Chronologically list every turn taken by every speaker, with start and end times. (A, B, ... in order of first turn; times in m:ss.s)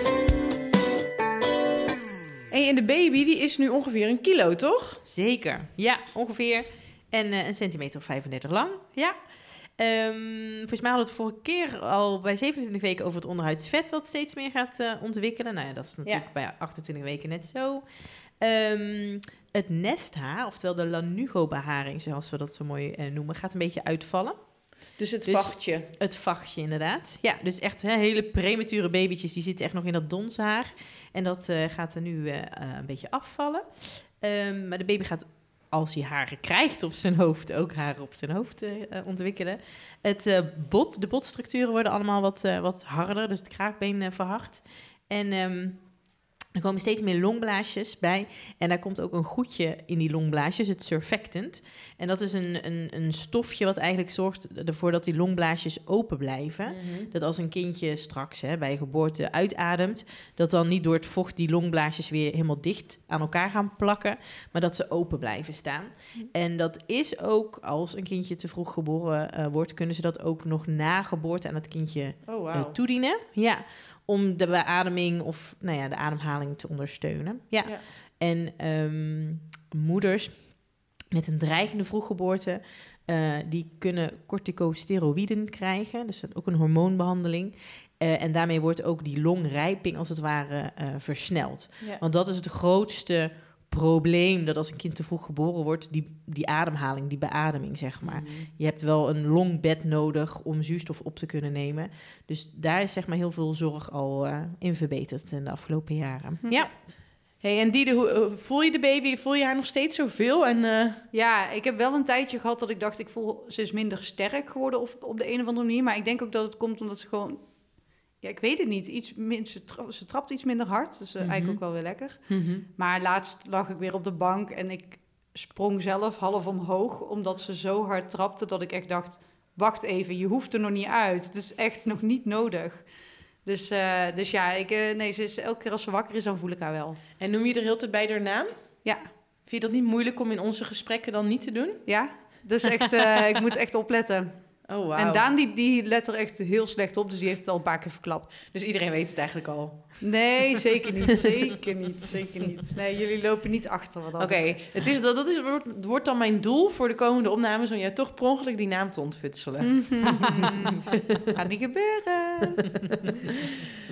0:02.5-0:05.0 A
0:05.0-1:46.7 B
0:25.0-0:25.9 A
0:56.7-0:57.1 A
1:12.2-1:12.8 A
1:38.0-1:38.5 A
1:46.6-1:51.0 A
1:51.1-2:17.0 C
2:01.2-2:02.6 A
2:17.2-2:22.3 A
2:18.8-2:19.1 C
2:21.8-2:28.4 C
2:24.6-2:25.3 A
2:28.5-2:30.1 A
2:30.0-2:34.9 C
2:34.2-2:40.4 A
2:39.6-2:40.8 C
2:41.3-2:42.8 C